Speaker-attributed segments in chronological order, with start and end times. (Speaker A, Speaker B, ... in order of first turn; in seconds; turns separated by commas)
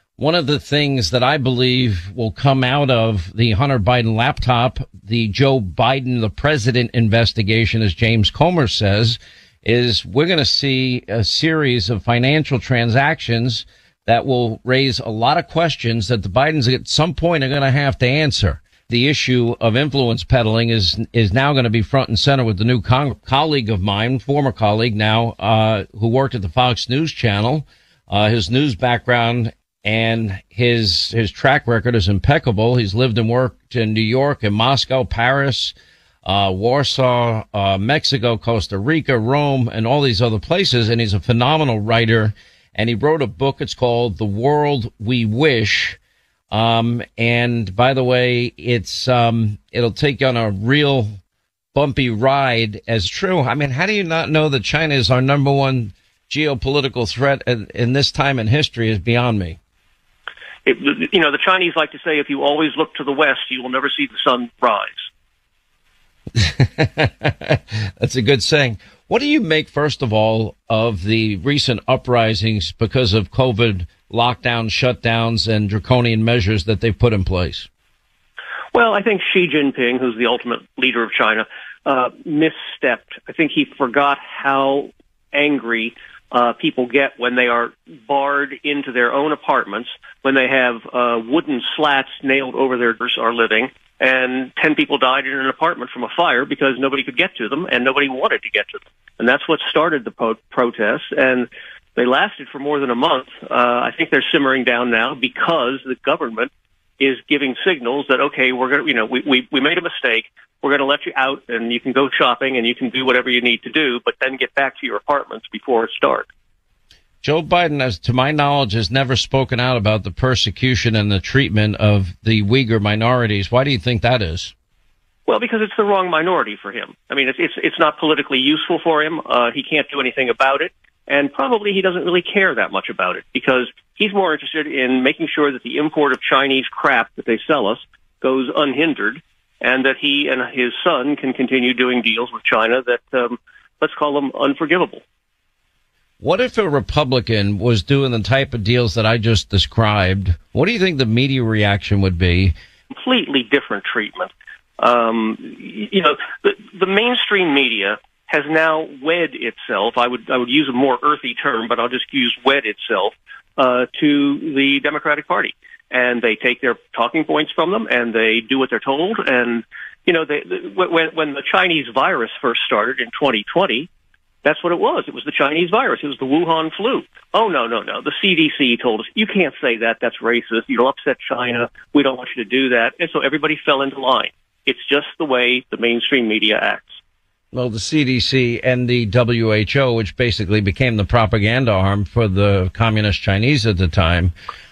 Speaker A: 0.2-46.0, Speaker A: 46.5-51.2, Speaker A: 51.7-59.6, Speaker B: 60.6-65.1, Speaker A: 66.3-77.7, Speaker B: 78.7-116.3, Speaker A: 117.2-124.5, Speaker B: 125.3-145.0, Speaker A: 146.2-152.5, Speaker B: 152.9-173.9, Speaker B: 174.4-187.0, Speaker A: 187.5-194.3